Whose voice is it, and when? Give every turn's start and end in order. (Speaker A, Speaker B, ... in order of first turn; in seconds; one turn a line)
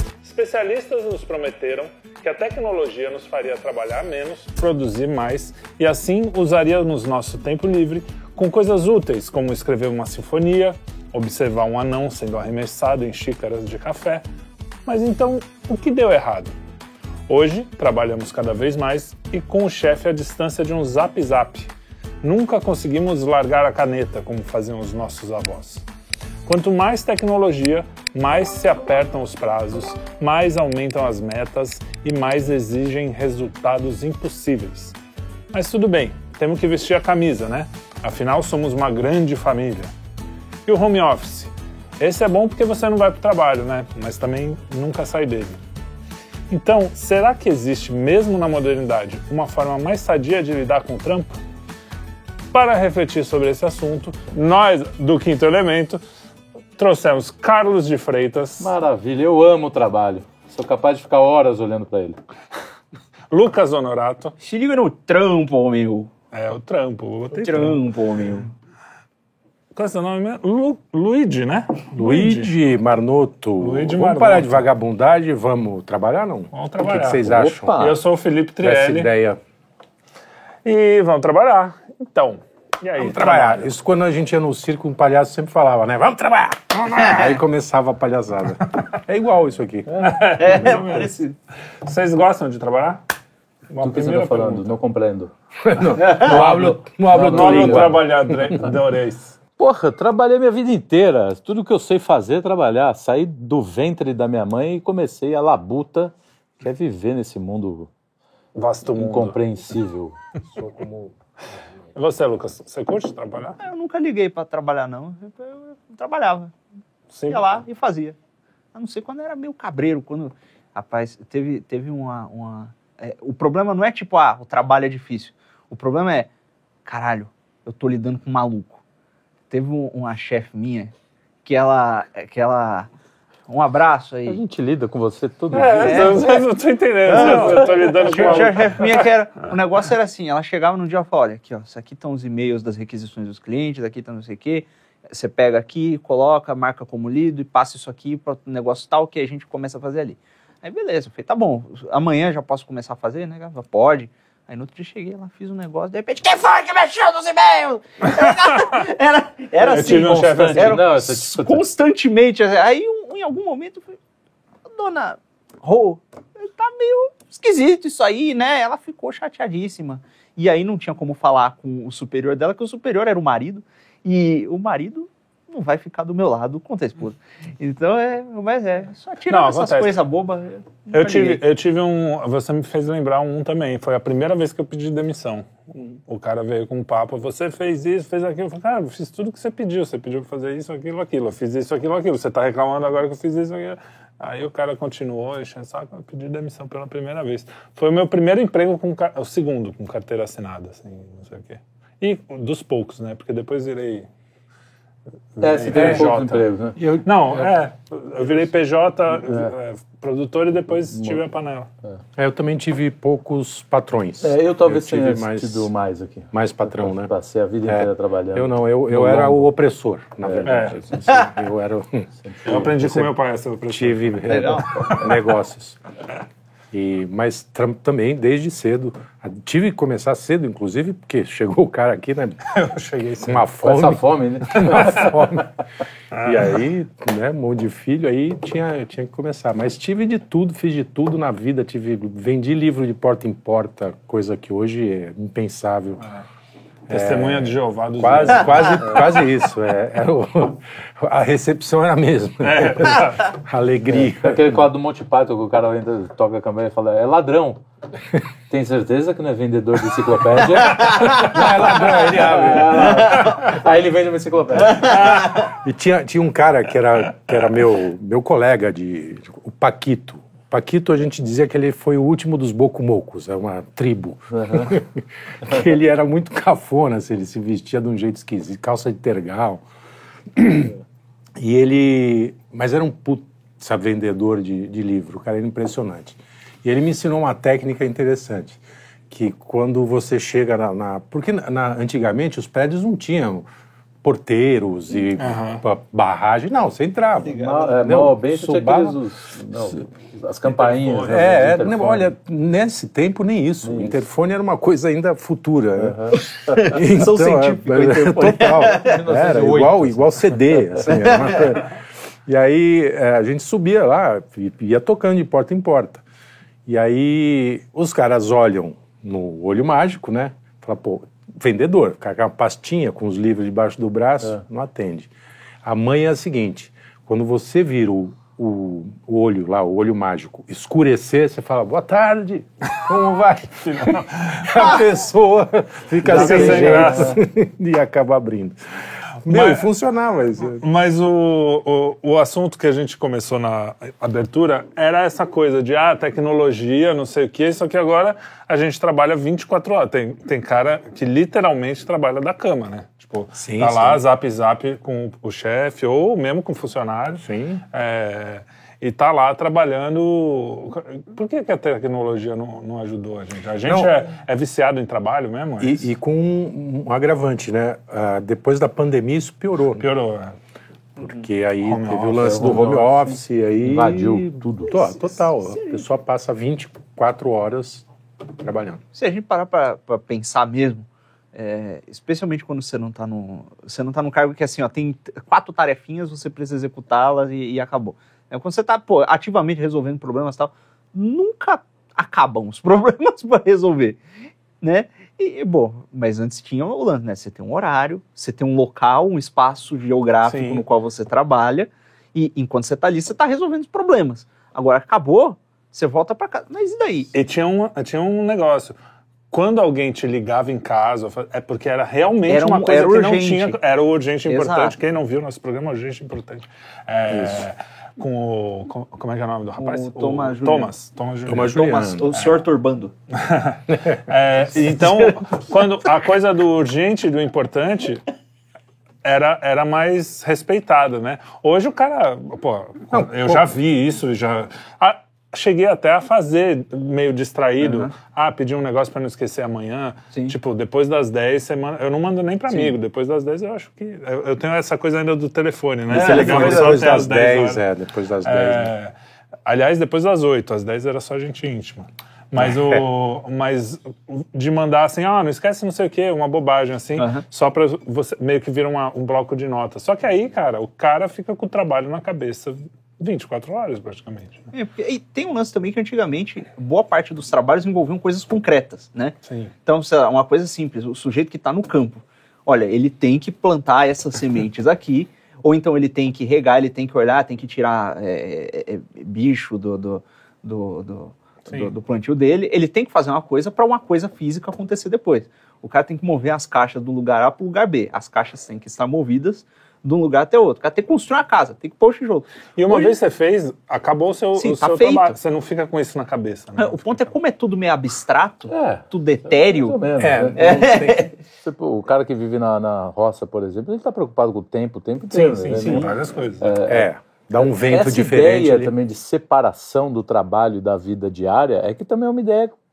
Speaker A: 0.2-14.2
Speaker A: 14.8-16.5
Speaker A: 17.3-21.7
Speaker A: 22.2-25.8
Speaker A: 26.4-35.0
Speaker A: 35.5-39.9
Speaker A: 40.6-45.6
Speaker A: 46.5-51.3
Speaker A: 52.5-56.0
Speaker A: 56.8-58.7
Speaker B: 58.6-62.2
Speaker A: 63.3-64.3
Speaker C: 64.4-66.1
Speaker A: 66.3-67.8
Speaker C: 67.3-68.5
Speaker A: 69.7-72.5
Speaker D: 71.9-77.8
Speaker A: 73.6-74.6
Speaker A: 76.5-79.1
Speaker B: 77.2-78.0
Speaker D: 78.6-79.4
Speaker A: 80.6-83.7
Speaker D: 83.0-90.1
Speaker A: 86.9-87.2
Speaker A: 90.0-91.1
Speaker C: 90.3-91.3
Speaker A: 91.8-93.0
Speaker A: 93.7-94.7
Speaker B: 93.8-95.3
Speaker D: 95.6-98.6
Speaker B: 96.0-98.0
Speaker A: 97.2-99.4
Speaker B: 99.6-107.9
Speaker A: 108.5-109.4
Speaker B: 108.9-110.2
Speaker D: 110.5-111.1
Speaker A: 111.9-113.6
Speaker C: 113.6-116.5
Speaker A: 117.1-117.4
Speaker C: 117.3-118.2
Speaker C: 118.7-126.3
Speaker C: 126.8-128.8
Speaker C: 129.5-130.9
Speaker C: 131.4-132.9
Speaker C: 133.5-134.4
Speaker B: 134.3-136.4
Speaker A: 135.5-139.1
Speaker C: 135.8-136.4
Speaker C: 137.1-164.0
Speaker B: 137.1-138.4
Speaker A: 158.1-158.7
Speaker A: 159.6-160.8
Speaker B: 159.6-161.7
Speaker C: 164.7-181.4
Speaker A: 179.3-180.0
Speaker A: 180.9-204.1
Speaker A: 205.3-211.7
Speaker B: 205.4-206.8
Speaker D: 205.7-206.1
Speaker D: 206.8-207.1
Speaker B: 210.9-211.2
Speaker D: 212.2-215.7
Speaker B: 214.2-219.5
Speaker D: 216.3-217.1
Speaker D: 217.7-223.1
Speaker B: 220.2-220.8
Speaker A: 220.4-220.8
Speaker B: 222.2-222.7
Speaker A: 222.4-225.1
Speaker D: 223.7-225.8
Speaker C: 224.3-224.9
Speaker D: 226.7-232.5
Speaker A: 232.5-233.4
Speaker D: 233.2-235.5
Speaker B: 233.6-235.4
Speaker A: 234.7-235.1
Speaker D: 236.1-246.0
Speaker A: 236.1-236.4
Speaker D: 246.9-254.7
Speaker A: 246.9-249.2
Speaker A: 252.4-253.3
Speaker B: 253.9-257.6
Speaker B: 258.5-265.0
Speaker D: 261.0-263.1
Speaker C: 264.9-265.4
Speaker D: 265.3-279.6
Speaker B: 274.4-274.7
Speaker D: 280.3-280.7
Speaker D: 281.4-293.4
Speaker D: 294.0-299.0
Speaker A: 295.2-295.6
Speaker A: 297.2-297.6
Speaker B: 297.3-302.1
Speaker A: 300.5-301.2
Speaker D: 301.0-311.7
Speaker B: 303.6-304.0
Speaker B: 305.8-306.2
Speaker C: 306.5-309.0
Speaker B: 308.6-310.8
Speaker C: 310.9-311.5
Speaker D: 312.2-316.0
Speaker D: 316.6-325.1
Speaker D: 325.6-338.6
Speaker A: 333.6-334.7
Speaker B: 336.0-337.2
Speaker A: 336.1-337.1
Speaker D: 339.2-340.6
Speaker A: 339.2-339.7
Speaker A: 340.5-365.8
Speaker D: 353.4-354.0
Speaker D: 357.2-357.6
Speaker D: 363.6-363.9
Speaker D: 365.6-369.9
Speaker A: 369.8-370.3
Speaker D: 371.0-377.9
Speaker A: 371.6-372.9
Speaker B: 372.2-372.8
Speaker B: 373.6-374.8
Speaker D: 378.4-378.8
Speaker C: 378.9-394.0
Speaker C: 394.6-407.1
Speaker A: 400.2-400.6
Speaker A: 407.1-408.8
Speaker A: 409.3-421.6
Speaker C: 412.3-413.6
Speaker C: 414.3-414.7
Speaker D: 417.1-417.4
Speaker C: 419.6-420.7
Speaker D: 421.3-422.2
Speaker C: 421.5-422.9
Speaker A: 423.1-428.0
Speaker D: 423.7-424.0
Speaker C: 424.9-425.2
Speaker A: 429.0-447.6
Speaker D: 432.9-433.4
Speaker C: 437.6-437.9
Speaker C: 445.9-447.0
Speaker D: 445.9-448.7
Speaker A: 448.2-448.9
Speaker A: 449.4-464.5
Speaker D: 452.4-452.8
Speaker C: 457.0-457.2
Speaker C: 464.5-492.9
Speaker A: 492.6-497.1
Speaker C: 494.4-495.1
Speaker C: 496.6-499.8
Speaker B: 498.5-500.6
Speaker D: 500.0-501.1
Speaker C: 500.4-501.1
Speaker B: 501.4-512.5
Speaker D: 505.1-505.9
Speaker A: 505.4-506.6
Speaker D: 506.6-508.7